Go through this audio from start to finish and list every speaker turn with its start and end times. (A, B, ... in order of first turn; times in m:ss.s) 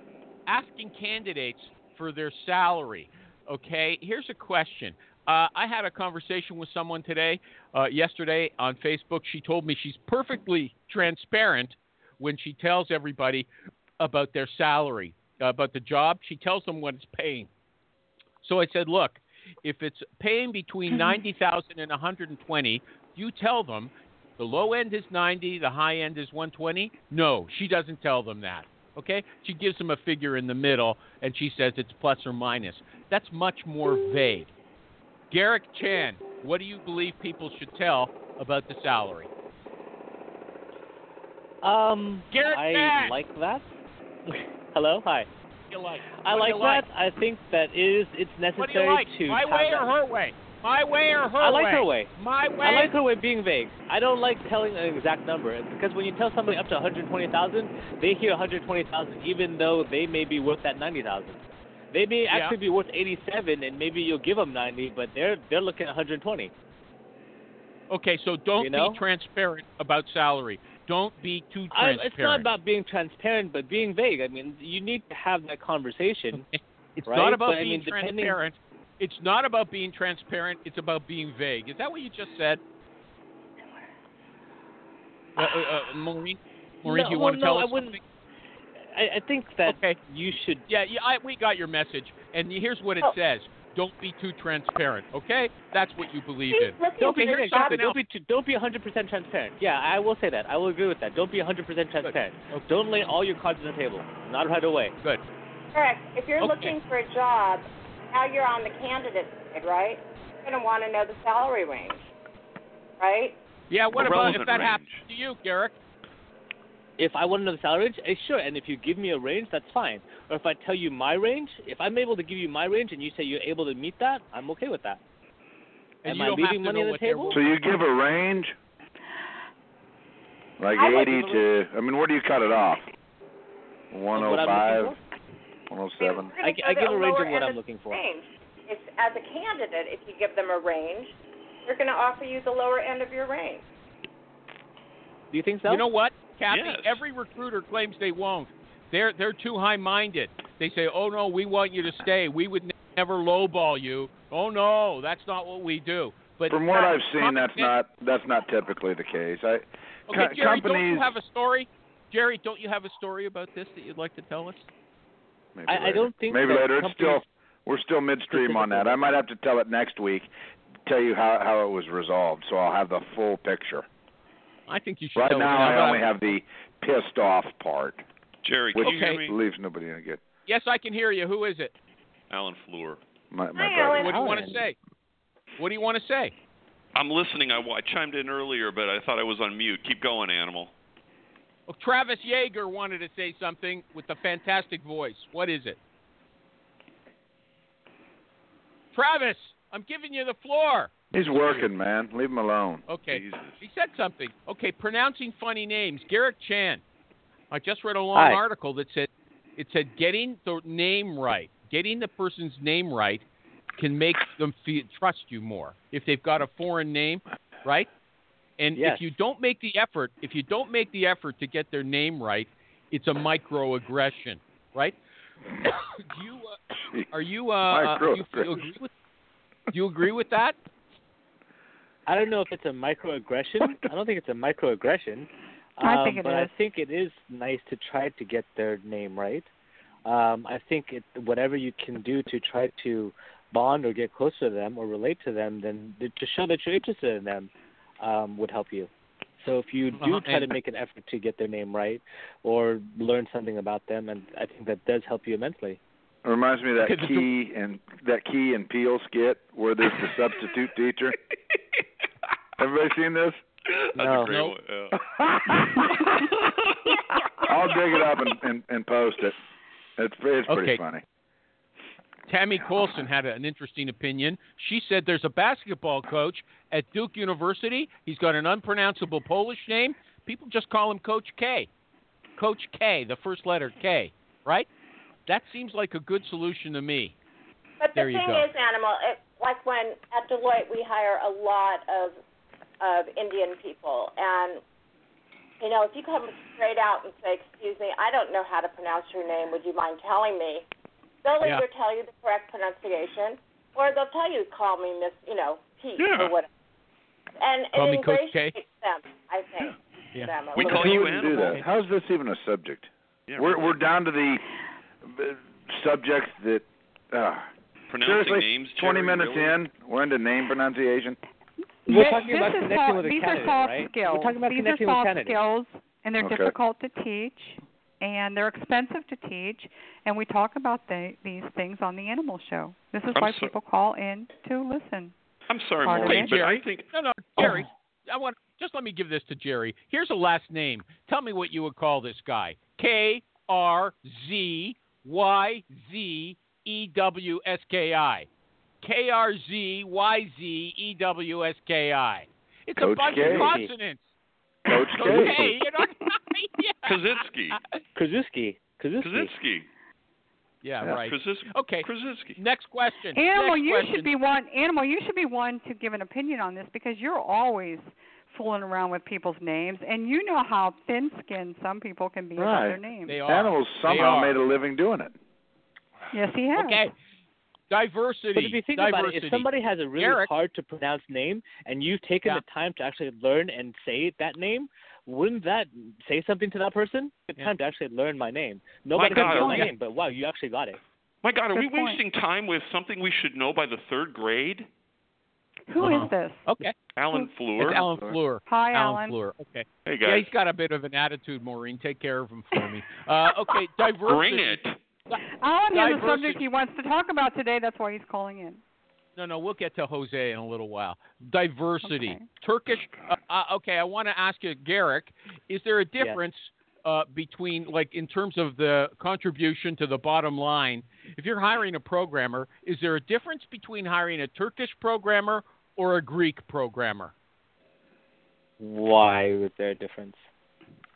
0:00.5-0:13.5 A
0:14.0-0:17.5 A
0:18.4-0:34.5 A
0:35.3-0:39.3 A
0:41.6-0:43.7 B
0:42.3-0:43.2 A
0:44.3-0:45.3 B
0:45.7-0:46.8 A
0:46.2-0:49.9 B
0:48.6-0:52.9 A
0:51.4-0:52.1 B
0:52.6-1:01.4 B
1:01.9-1:06.5 B
1:02.3-1:02.6 A
1:07.9-1:12.5 A
1:08.6-1:09.0 B
1:11.7-1:16.4 B
1:16.3-1:22.6 A
1:17.1-1:18.4 B
1:25.4-1:28.0 A
1:26.8-1:28.0 B
1:28.9-1:30.6 B
1:29.6-1:30.0 A
1:30.7-1:38.0 A
1:36.5-1:37.8 C
1:37.0-1:44.9 B
1:42.0-1:42.7 A
1:45.7-1:52.0 C
1:46.4-1:46.8 A
1:53.0-1:53.4 C
1:53.7-1:55.8 A
1:53.9-1:55.0 D
1:57.0-2:05.0 B
2:06.0-2:07.4 A
2:06.0-2:07.4 B
2:07.3-2:08.5 E
2:10.6-2:12.8 E
2:10.8-2:11.3 B
2:10.8-2:11.2 C
2:13.9-2:15.0 E
2:14.1-2:15.0 B
2:15.7-2:16.3 E
2:16.0-2:21.1 C
2:16.4-2:18.0 B
2:21.6-2:23.6 C
2:25.3-2:25.8 B
2:25.7-2:37.7 A
2:26.5-2:27.0 D
2:36.5-2:41.1 E
2:40.1-2:44.7 A
2:45.5-2:50.3 E
2:45.7-2:47.2 B
2:48.3-2:49.2 B
2:50.8-2:53.8 E
2:54.7-2:56.1 A
2:55.2-2:58.0 E
2:58.4-2:59.4 D
2:58.7-3:00.2 E
2:58.8-2:59.2 A
3:00.5-3:01.7 A
3:02.3-3:03.0 D
3:03.3-3:04.2 E
3:03.5-3:04.2 C
3:04.0-3:04.8 A
3:04.0-3:04.6 B
3:05.6-3:06.3 A
3:06.9-3:10.7 D
3:11.7-3:15.8 A
3:18.9-3:21.7 A
3:21.1-3:22.8 E
3:22.9-3:26.8 A
3:23.1-3:23.6 D
3:27.5-3:33.2 A
3:28.1-3:28.4 B
3:33.8-3:37.9 A
3:38.6-3:45.0 A
3:38.8-3:39.0 B
3:45.6-3:46.6 A
3:47.1-3:48.9 A
3:47.7-3:48.6 E
3:49.7-3:50.6 A
3:52.1-3:59.5 B
3:55.8-3:56.5 F
4:00.0-4:15.8 B
4:10.0-4:10.5 A
4:16.2-4:21.2 E
4:16.8-4:17.3 A
4:22.6-4:23.4 E
4:23.9-4:25.0 D
4:24.0-4:24.3 B
4:24.9-4:25.9 E
4:26.1-4:26.9 D
4:27.4-4:29.4 E
4:30.0-4:31.0 E
4:30.5-4:30.8 A
4:32.3-4:41.7 A
4:32.7-4:33.0 E
4:42.4-4:44.7 A
4:45.3-4:47.1 A
4:47.8-4:52.2 C
4:47.9-4:48.5 A
4:52.8-4:54.6 C
4:55.6-5:00.6 C
5:01.2-5:06.5 C
5:06.0-5:06.3 D
5:07.4-5:11.4 C
5:07.7-5:08.5 A
5:10.5-5:11.6 D
5:10.6-5:14.4 E
5:13.3-5:13.8 D
5:15.0-5:17.5 E
5:17.9-5:19.6 D
5:18.0-5:21.2 E
5:21.8-5:35.1 F
5:21.9-5:25.4 B
5:26.2-5:26.5 E
5:33.1-5:33.5 D
5:35.5-5:36.9 D
5:35.8-5:36.4 F
5:36.0-5:48.3 A
5:48.8-5:54.0 A
5:52.8-5:53.6 E
5:53.2-5:53.7 B
5:54.6-5:55.5 E
5:54.9-5:56.9 A
5:56.8-5:57.6 D
5:58.0-5:59.3 B
5:59.0-5:59.7 D
6:00.6-6:04.1 A
6:00.8-6:02.4 D
6:03.1-6:13.2 F
6:12.4-6:15.1 E
6:13.1-6:14.4 A
6:16.1-6:16.8 F
6:16.5-6:16.9 A
6:17.7-6:20.3 A
6:18.3-6:30.8 B
6:28.9-6:29.7 D
6:29.2-6:29.7 A
6:31.2-6:34.7 D
6:31.5-6:32.0 F
6:35.7-6:36.5 F
6:35.8-6:36.8 A
6:36.9-6:38.2 D
6:37.6-6:46.4 A
6:38.5-6:39.2 F
6:39.8-6:40.3 D
6:44.0-6:44.8 D
6:45.4-6:48.6 F
6:49.2-7:07.1 A
6:51.8-6:52.2 F
6:52.7-6:53.1 D
7:08.6-7:10.2 B